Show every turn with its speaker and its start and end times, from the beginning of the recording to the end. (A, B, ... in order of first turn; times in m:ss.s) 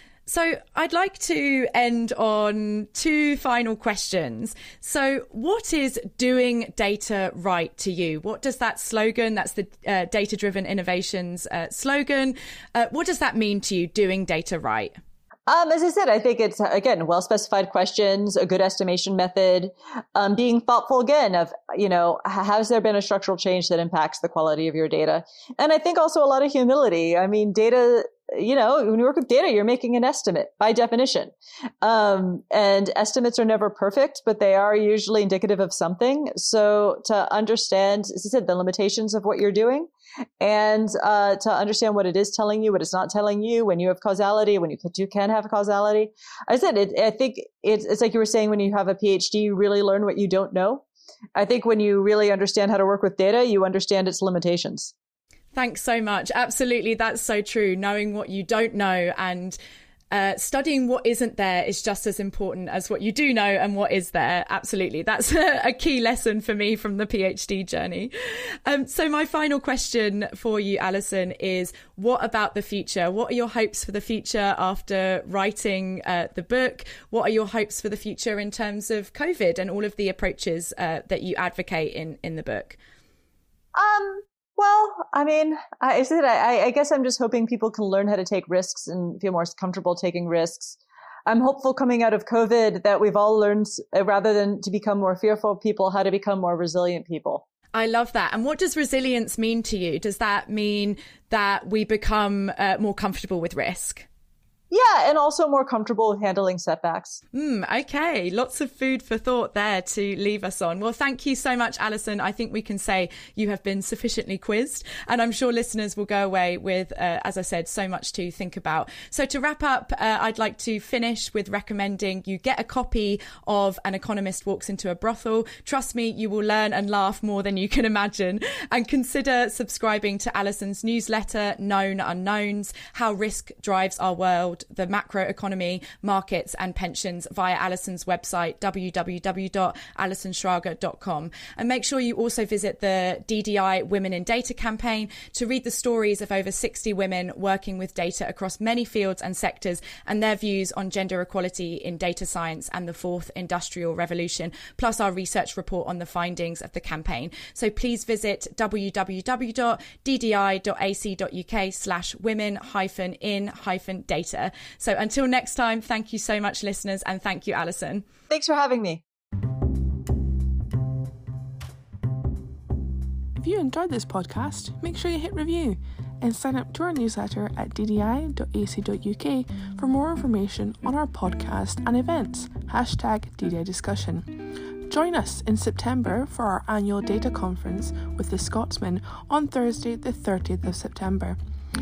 0:00.3-0:14.9 A
0:15.5-0:39.9 B
0:40.4-0:50.8 B
0:51.4-0:54.9 B
0:55.5-0:59.6 A
1:00.1-1:22.8 A
1:23.7-1:37.4 B
1:37.7-1:44.0 A
1:44.7-1:47.2 B
1:47.3-2:48.0 A
2:48.3-2:49.0 B
2:53.4-3:11.4 C